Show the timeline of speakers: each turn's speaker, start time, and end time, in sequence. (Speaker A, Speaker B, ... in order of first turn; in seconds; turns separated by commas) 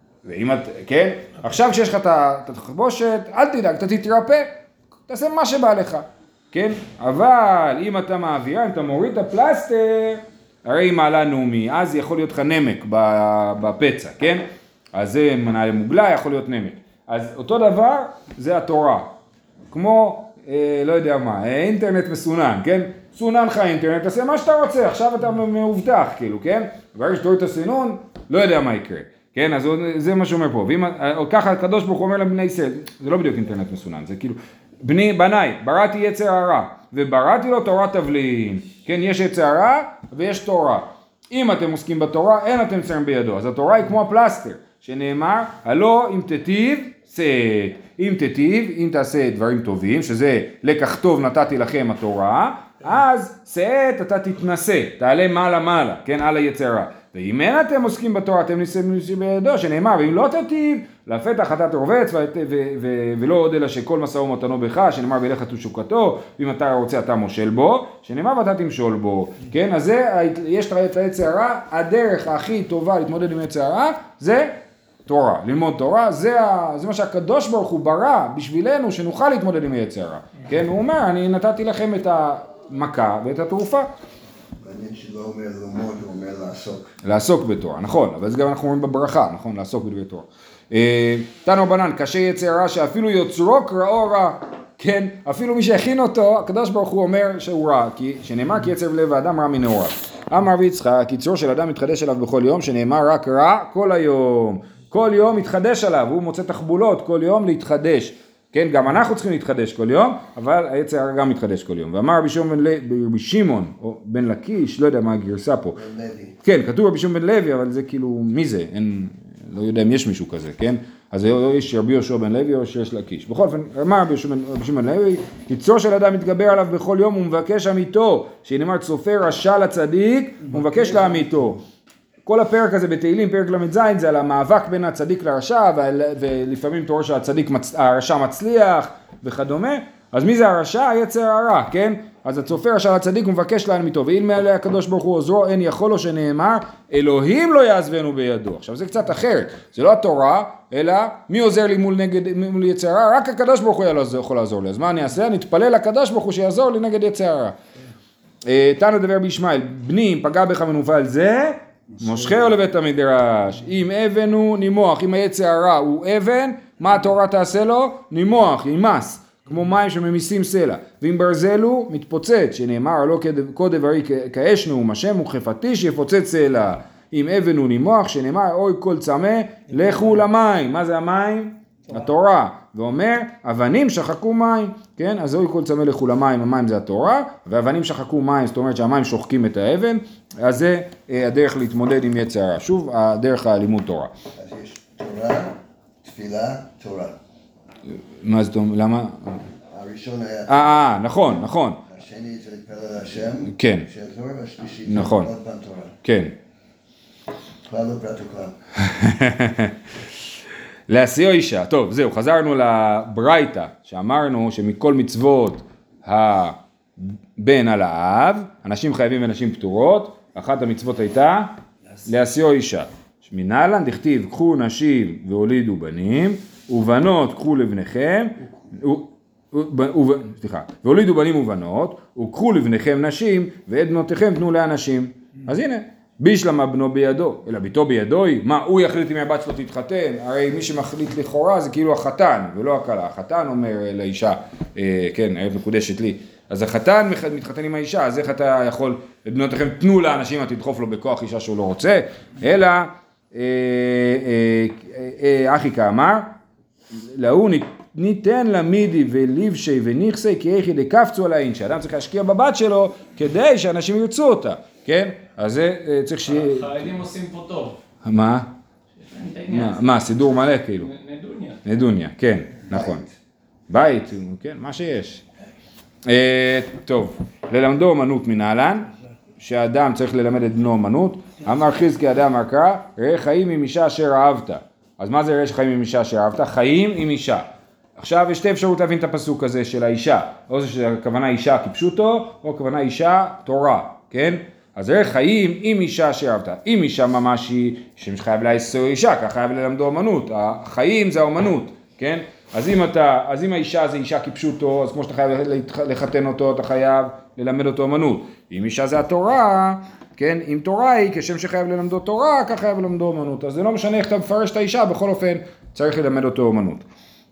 Speaker A: 0.2-4.5, Speaker A: 5.1-19.1, Speaker A: 19.7-83.9, Speaker B: 84.6-86.9, Speaker A: 87.0-115.8, Speaker B: 115.8-116.4, Speaker A: 116.4-131.6, Speaker A: 132.3-157.6, Speaker A: 158.4-194.1, Speaker B: 194.3-197.2, Speaker A: 198.2-199.4, Speaker B: 199.7-201.1, Speaker A: 200.5-201.8, Speaker B: 201.8-206.0, Speaker A: 203.5-203.9, Speaker A: 204.9-205.3, Speaker A: 206.0-206.3, Speaker B: 207.7-208.6, Speaker A: 208.8-209.7, Speaker A: 210.9-221.5, Speaker A: 222.1-256.3, Speaker A: 256.9-266.7, Speaker C: 266.3-267.8, Speaker A: 268.0-268.5, Speaker C: 269.0-270.0, Speaker A: 269.5-270.9, Speaker C: 270.8-271.6, Speaker A: 271.6-273.0, Speaker B: 272.7-273.1, Speaker A: 273.7-275.2, Speaker A: 276.1-316.8